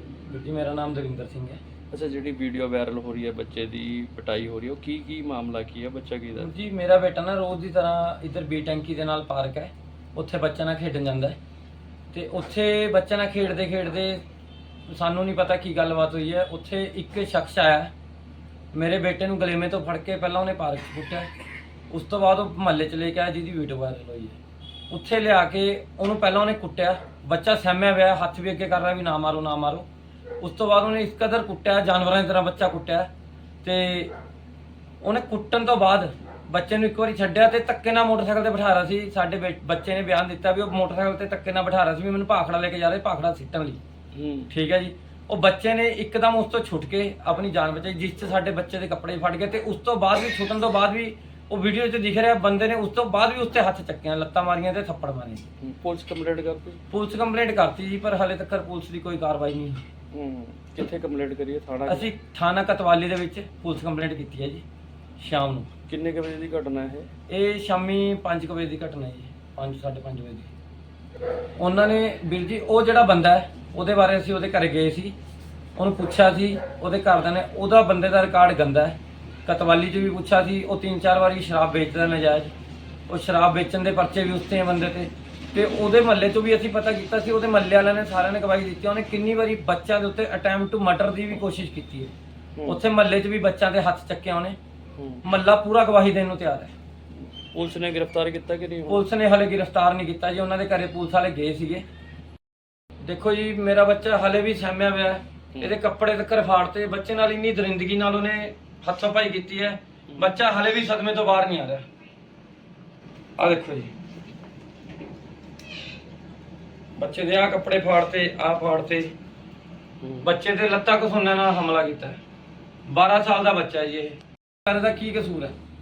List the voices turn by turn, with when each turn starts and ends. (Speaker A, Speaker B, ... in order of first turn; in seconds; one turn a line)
Speaker A: 0.3-1.6
Speaker B: 1.9-6.5
Speaker A: 6.3-11.4
Speaker A: 12.1-14.2
Speaker A: 14.9-17.9
Speaker A: 18.7-21.3
Speaker A: 21.9-24.4
Speaker A: 24.9-29.9
Speaker A: 30.4-33.1
Speaker A: 33.6-34.1
Speaker A: 35.0-43.8
Speaker B: 44.1-44.5
Speaker A: 44.5-55.5
Speaker B: 55.6-56.8
Speaker A: 56.9-59.8
Speaker B: 60.1-62.1
Speaker A: 61.9-64.6
Speaker A: 65.2-65.7
Speaker B: 65.9-67.1
Speaker A: 67.3-70.5
Speaker A: 71.6-75.2
Speaker A: 75.8-82.5
Speaker A: 83.1-92.1
Speaker B: 92.5-92.8
Speaker A: 92.7-94.6
Speaker B: 95.0-95.2
Speaker A: 95.2-96.7
Speaker B: 97.2-99.0
Speaker A: 98.9-101.8
Speaker A: 103.0-111.8
Speaker A: 113.4-113.9
Speaker A: 117.0-119.1
Speaker B: 120.0-120.3
Speaker A: 120.2-122.2
Speaker A: 122.9-125.5